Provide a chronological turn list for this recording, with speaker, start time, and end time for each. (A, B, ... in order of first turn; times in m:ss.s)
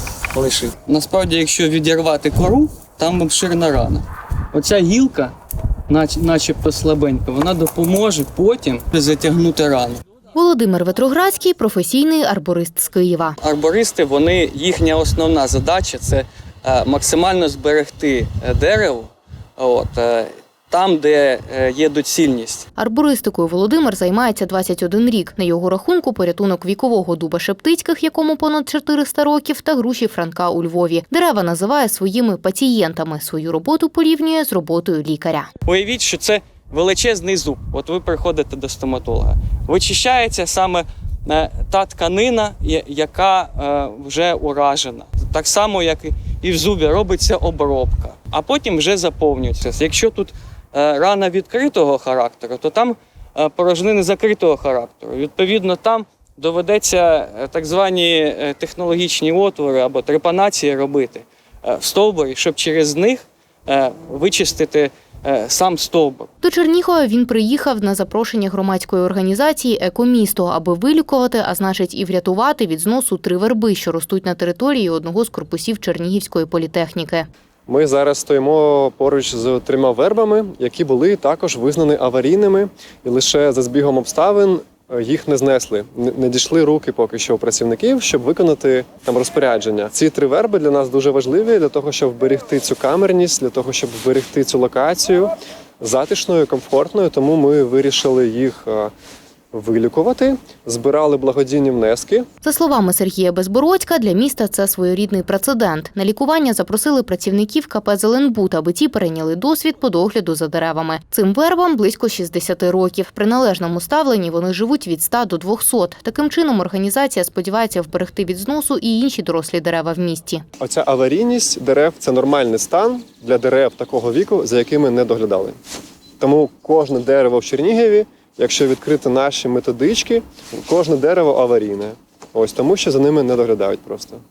0:00.3-0:05.3 A
0:05.9-0:10.0 A
0:10.4-0:13.4 B
0:13.4-0:22.6 A
0:22.8-0:35.5 B
0:35.7-1:06.3 A
1:06.4-1:17.3 B
1:17.7-1:38.9 C
1:39.5-1:42.3 C
1:42.4-2:00.4 B
2:00.6-2:05.6 C
2:06.2-2:14.2 C